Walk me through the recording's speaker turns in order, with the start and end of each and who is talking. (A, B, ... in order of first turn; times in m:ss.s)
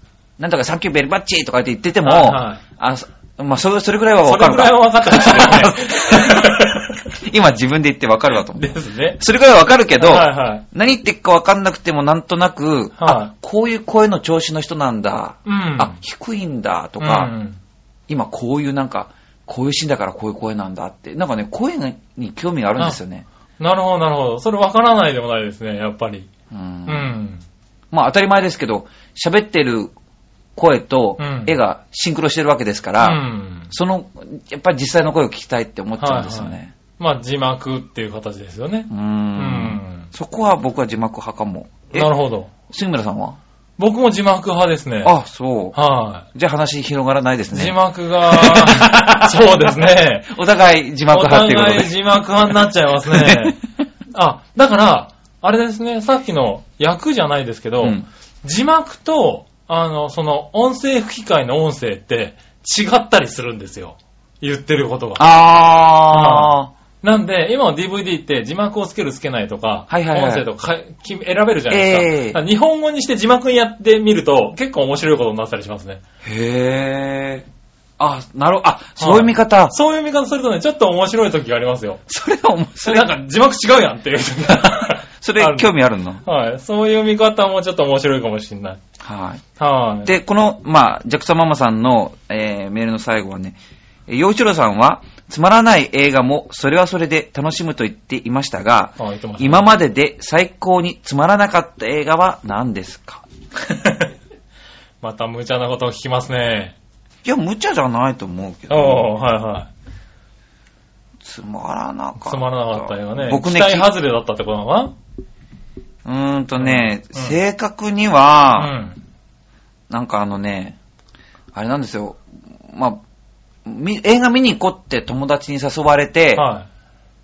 0:00.4-0:17.3 A
0:02.0-0:02.6 B
0:04.2-0:07.0 B
0:08.5-0:09.2 B
0:10.0-0:10.6 B
0:13.0-0:13.3 B
0:15.4-0:16.0 B
0:17.0-0:17.6 B
0:18.1-0:23.2 A
0:23.6-0:26.3 B
0:26.5-0:27.1 A
0:26.8-0:27.4 B
0:27.9-0:29.9 A
0:30.6-0:36.7 A
0:31.2-0:31.6 B
0:33.0-0:33.7 B
0:36.0-0:40.1 B
0:38.9-0:42.1 A
0:41.9-0:42.5 B
0:42.7-0:43.4 A
0:43.8-0:45.1 B
0:45.0-0:45.8 A
0:45.7-0:46.2 B
0:46.3-0:51.9 A
0:47.5-0:50.3 B
0:51.1-0:53.6 B
0:53.1-0:53.6 A
0:54.1-1:05.2 B
0:57.8-0:58.0 A
1:05.2-1:06.7 A
1:06.1-1:16.0 B
1:09.9-1:10.4 A
1:11.7-1:12.4 A
1:16.2-1:17.4 A
1:18.0-1:19.7 A
1:19.0-1:22.0 B
1:22.1-1:23.1 A
1:22.8-1:25.7 B
1:25.2-1:26.2 A
1:26.2-1:28.8 B
1:29.0-1:29.4 A
1:29.6-1:30.1 B
1:30.0-1:43.2 A
1:39.0-1:39.7 B
1:43.6-1:44.1 B
1:45.0-1:46.7 B
1:47.2-1:49.1 A
1:48.7-1:49.7 B
1:51.2-1:53.9 A
1:52.2-1:54.9 B
1:56.0-1:58.7 A
1:56.6-1:57.4 B
1:58.6-1:59.0 B
1:59.9-2:00.8 A
2:01.5-2:03.0 A
2:03.6-2:06.5 A
2:06.3-2:06.7 B